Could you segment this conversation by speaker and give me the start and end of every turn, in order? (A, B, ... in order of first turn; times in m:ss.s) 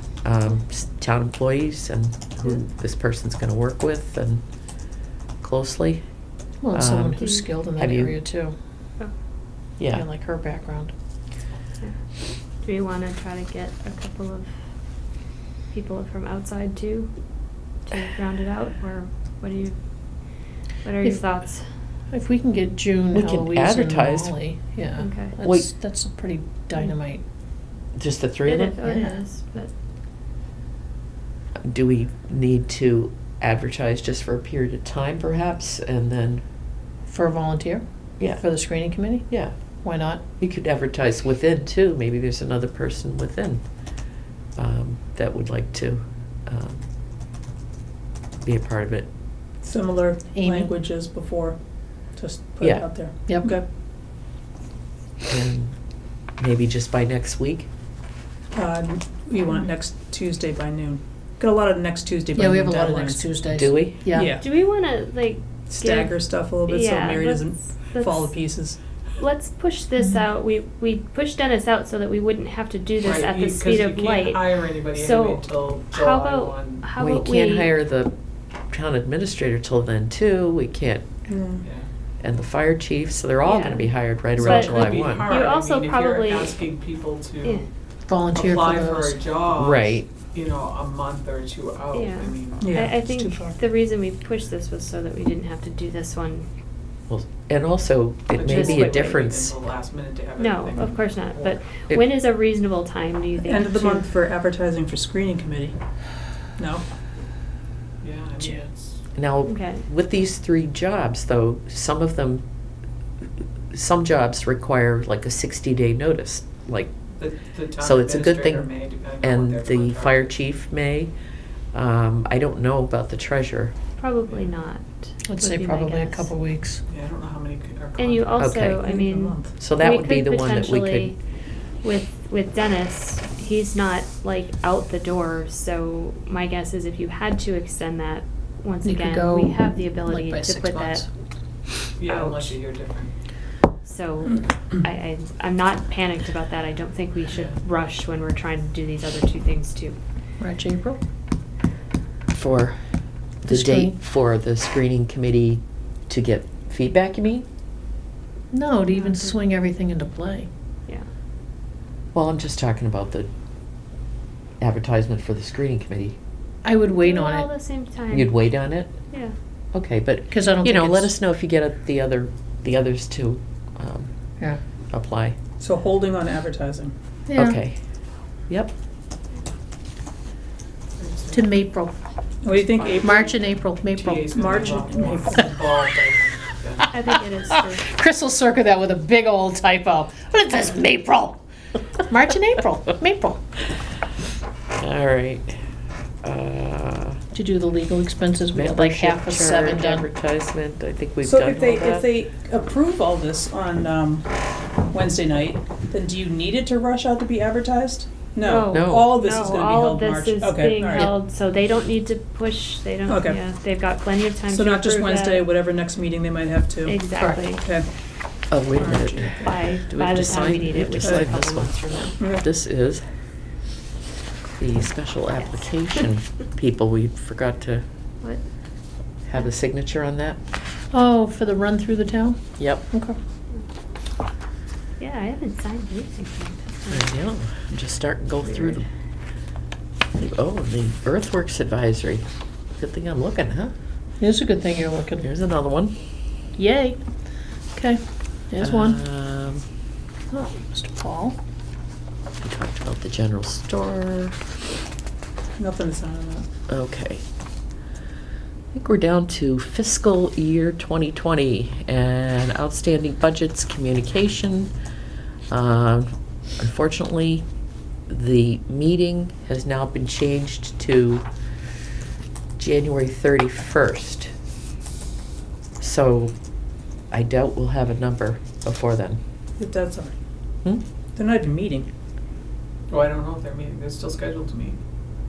0:00.2-0:04.4 A
0:05.4-0:06.0 A
0:06.6-0:08.6 B
0:06.7-0:08.2 A
0:07.2-0:07.4 C
0:09.8-0:10.0 A
0:09.9-0:10.9 B
0:12.6-0:14.5 C
0:15.7-0:17.1 C
0:17.8-0:21.7 C
0:21.0-0:21.3 B
0:22.1-0:27.2 B
0:23.1-0:24.3 A
0:25.0-0:25.3 C
0:25.4-0:25.7 A
0:28.0-0:28.8 A
0:28.4-0:29.7 C
0:28.8-0:29.2 B
0:31.6-0:36.4 A
0:37.1-0:39.3 B
0:38.2-0:38.4 A
0:39.3-0:39.5 A
0:39.8-0:40.2 B
0:40.4-0:43.6 A
0:44.6-0:46.8 A
0:48.4-0:49.1 A
0:49.6-0:51.6 D
0:50.3-0:50.7 B
0:52.1-0:53.7 D
0:52.6-0:52.9 A
0:53.2-0:53.5 B
0:55.3-0:55.8 A
0:56.4-0:57.7 A
0:58.5-1:03.2 D
1:02.4-1:04.4 B
1:03.5-1:04.0 A
1:04.1-1:04.5 D
1:04.4-1:08.4 C
1:05.7-1:08.8 D
1:09.2-1:17.7 C
1:13.0-1:16.9 E
1:17.0-1:18.1 A
1:18.7-1:21.0 A
1:21.3-1:21.6 D
1:21.6-1:21.9 E
1:22.2-1:25.3 A
1:23.4-1:26.6 C
1:24.4-1:27.7 E
1:28.1-1:29.2 B
1:28.3-1:32.8 E
1:29.6-1:30.1 A
1:32.0-1:36.5 C
1:32.6-1:33.6 D
1:37.1-1:39.5 A
1:38.3-1:41.6 E
1:38.4-1:39.1 C
1:40.4-1:44.1 C
1:43.4-1:45.8 D
1:46.6-1:46.8 D
1:48.0-1:49.0 E
1:49.2-1:52.4 A
1:49.4-1:49.8 C
1:53.7-1:56.9 A
1:57.2-2:00.4 E
1:57.8-2:01.1 A
2:01.7-2:03.8 A
2:04.0-2:06.3 C
2:05.3-2:06.8 B
2:06.9-2:08.4 E
2:08.0-2:11.2 C
2:08.4-2:08.8 A
2:08.8-2:09.5 D
2:09.6-2:11.1 A
2:11.8-2:21.0 C
2:18.8-2:21.1 B
2:22.0-2:23.1 E
2:22.0-2:22.6 C
2:23.8-2:30.0 C
2:30.4-2:31.0 B
2:32.3-2:32.8 A
2:33.4-2:37.5 A
2:33.5-2:34.0 B
2:38.5-2:40.5 B
2:38.9-2:39.3 C
2:42.1-2:43.3 A
2:44.6-2:46.2 A
2:46.6-2:47.5 B
2:47.0-2:49.4 C
2:48.1-2:49.0 A
2:49.7-2:54.1 A
2:50.3-2:51.2 B
2:54.9-2:55.4 A
2:55.6-2:57.0 D
2:57.3-2:57.6 B
2:57.4-2:57.8 A
3:01.0-3:01.4 E
3:01.3-3:01.9 B
3:02.4-3:03.2 D
3:02.5-3:06.9 E
3:02.9-3:05.0 B
3:04.4-3:05.7 D
3:06.9-3:07.9 C
3:07.1-3:11.4 B
3:12.1-3:13.4 B
3:14.8-3:15.6 A
3:16.2-3:17.2 A
3:17.3-3:20.1 B
3:18.5-3:22.1 A
3:21.2-3:24.3 D
3:24.9-3:31.1 D
3:28.4-3:35.5 C
3:28.7-3:29.1 A
3:33.1-3:33.4 D
3:34.5-3:37.0 D
3:36.8-3:37.7 C
3:37.2-3:37.4 B
3:37.6-3:37.9 D
3:38.5-3:43.0 A
3:38.8-3:39.5 D
3:39.4-3:42.2 C
3:41.0-3:41.3 D
3:42.2-3:42.5 D
3:44.6-3:47.9 A
3:45.4-3:46.0 C
3:49.3-3:50.4 A
3:50.9-3:53.2 B
3:52.6-3:52.9 A
3:55.0-3:57.2 C
3:56.9-3:58.9 A
3:58.5-3:58.8 C
4:00.2-4:03.7 A
4:04.2-4:05.3 B
4:05.2-4:06.0 A
4:06.6-4:07.0 B
4:07.7-4:09.0 B
4:08.6-4:09.6 A
4:10.3-4:11.4 B
4:12.4-4:14.4 A
4:15.6-4:16.5 D
4:16.7-4:17.2 A
4:18.7-4:24.7 A
4:25.5-4:27.5 A
4:28.1-4:31.2 A
4:32.6-4:34.3 A
4:35.8-4:36.4 A
4:37.1-4:39.2 A
4:39.6-4:40.2 D
4:41.2-4:41.9 D
4:42.9-4:44.8 E